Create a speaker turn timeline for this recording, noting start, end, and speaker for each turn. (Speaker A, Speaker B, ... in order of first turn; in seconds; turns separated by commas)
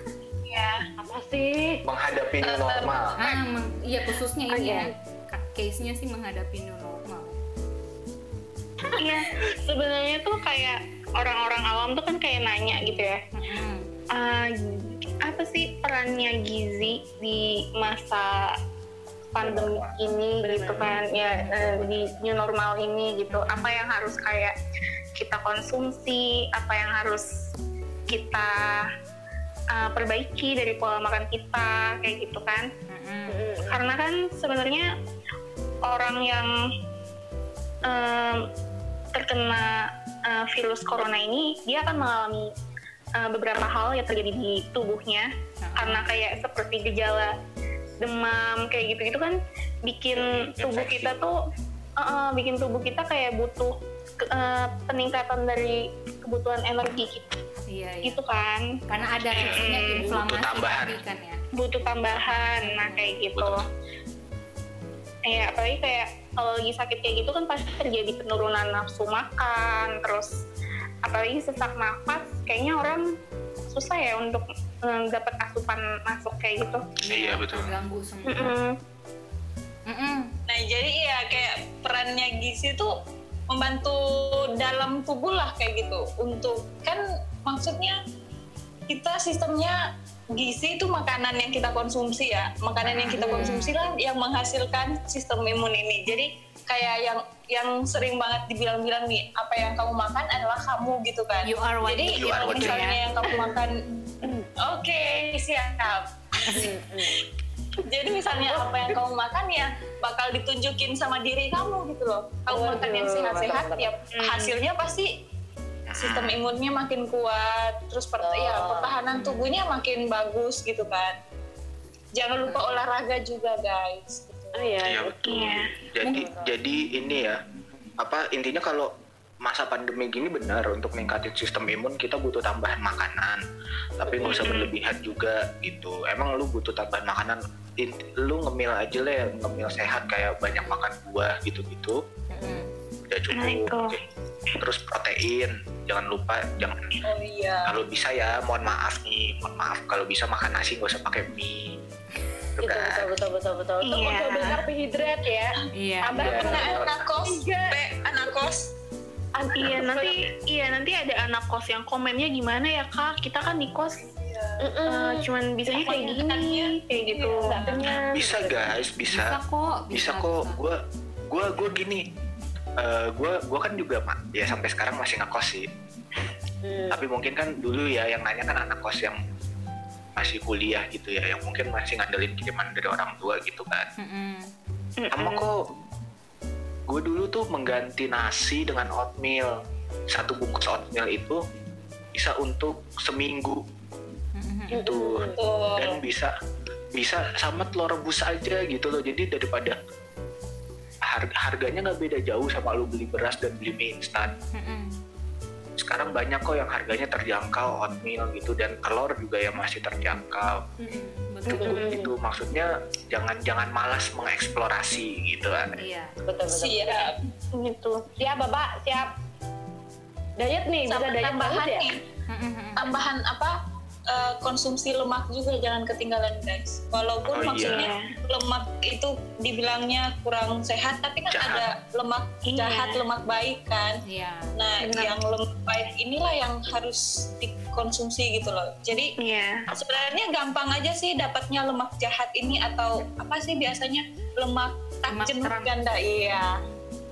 Speaker A: 0.5-0.8, Speaker B: 1.0-1.8, Speaker C: 1.8-3.2, Speaker A: 2.4-3.4, Speaker D: 3.2-7.4, Speaker B: 4.5-4.9, Speaker E: 8.9-13.2, Speaker D: 13.3-13.8, Speaker E: 14.1-18.5, Speaker E: 19.3-24.5, Speaker C: 19.4-19.9, Speaker B: 20.4-20.9, Speaker C: 21.4-21.9, Speaker D: 23.3-23.7, Speaker E: 25.2-27.3, Speaker E: 28.1-28.9, Speaker E: 29.7-32.7, Speaker D: 32.9-33.4, Speaker B: 33.3-33.8, Speaker E: 33.7-34.9, Speaker E: 35.8-36.5, Speaker E: 37.9-38.4, Speaker E: 39.1-42.5, Speaker E: 43.2-47.3, Speaker D: 45.6-46.1, Speaker E: 48.0-51.4, Speaker C: 50.1-51.3, Speaker E: 52.0-57.3, Speaker D: 57.7-58.2, Speaker E: 58.0-58.7, Speaker D: 58.9-61.4, Speaker C: 59.3-61.0, Speaker E: 59.4-60.1, Speaker E: 61.5-63.6, Speaker D: 62.4-63.1, Speaker C: 63.3-63.7, Speaker E: 65.2-70.3, Speaker E: 71.0-73.0, Speaker E: 73.7-76.8, Speaker D: 77.0-78.5, Speaker C: 77.1-77.7, Speaker E: 78.2-78.8, Speaker D: 79.9-80.3, Speaker A: 80.5-82.9, Speaker A: 83.5-88.0, Speaker A: 88.9-89.8, Speaker A: 90.3-103.8, Speaker D: 92.8-93.8, Speaker B: 93.1-93.5, Speaker D: 101.4-103.0, Speaker C: 102.0-102.8, Speaker B: 103.3-103.5, Speaker A: 104.6-106.6, Speaker B: 106.5-107.2, Speaker A: 107.8-115.1, Speaker B: 108.3-109.0, Speaker B: 112.5-113.9, Speaker E: 114.1-114.6, Speaker C: 115.9-116.4, Speaker A: 116.0-121.2, Speaker B: 118.2-118.9, Speaker D: 119.1-119.5, Speaker A: 122.1-124.8, Speaker D: 122.5-122.8, Speaker B: 124.5-125.2, Speaker C: 124.8-127.4, Speaker E: 125.2-125.7, Speaker B: 126.1-126.5, Speaker C: 128.0-133.4, Speaker C: 134.0-142.0, Speaker B: 134.1-134.5, Speaker E: 134.2-134.7, Speaker D: 142.3-142.7, Speaker C: 143.1-144.0, Speaker E: 143.3-144.0, Speaker C: 144.6-146.9, Speaker A: 147.0-147.7, Speaker C: 147.7-151.8, Speaker C: 152.6-153.1, Speaker B: 152.6-157.8, Speaker E: 153.8-154.6, Speaker D: 155.7-156.1, Speaker C: 156.1-157.0, Speaker A: 156.2-158.7, Speaker B: 159.3-160.2, Speaker E: 159.5-164.1, Speaker A: 163.9-164.7, Speaker B: 164.6-165.2, Speaker E: 164.9-167.8, Speaker A: 165.7-167.8, Speaker B: 167.2-168.6, Speaker C: 168.1-169.4, Speaker D: 169.1-170.6, Speaker C: 169.9-172.1, Speaker C: 172.8-175.7, Speaker B: 176.6-177.0, Speaker C: 176.9-179.2, Speaker C: 180.2-183.9, Speaker D: 184.0-184.5, Speaker E: 185.0-185.5, Speaker C: 185.1-185.7, Speaker C: 186.9-189.5, Speaker C: 190.1-191.4, Speaker C: 192.1-193.6, Speaker D: 194.3-194.8, Speaker B: 194.7-195.4, Speaker C: 194.7-196.3, Speaker A: 195.3-196.0, Speaker C: 196.9-199.8, Speaker C: 201.1-204.3, Speaker D: 204.5-205.0, Speaker C: 205.8-210.6, Speaker D: 210.8-211.9, Speaker B: 211.5-212.1, Speaker C: 211.5-215.7, Speaker D: 215.8-216.1, Speaker B: 216.3-217.1, Speaker A: 216.5-217.2, Speaker E: 217.5-218.0, Speaker B: 218.2-219.1, Speaker B: 220.4-221.8, Speaker A: 220.9-222.0, Speaker D: 222.3-222.9, Speaker A: 222.8-223.6, Speaker A: 224.1-234.0, Speaker C: 227.3-227.9, Speaker E: 227.6-228.1, Speaker C: 231.3-231.7, Speaker E: 232.4-233.0, Speaker D: 234.1-234.5, Speaker A: 234.5-239.1, Speaker E: 234.8-235.1, Speaker E: 239.2-239.7, Speaker A: 239.7-246.5, Speaker D: 245.1-245.7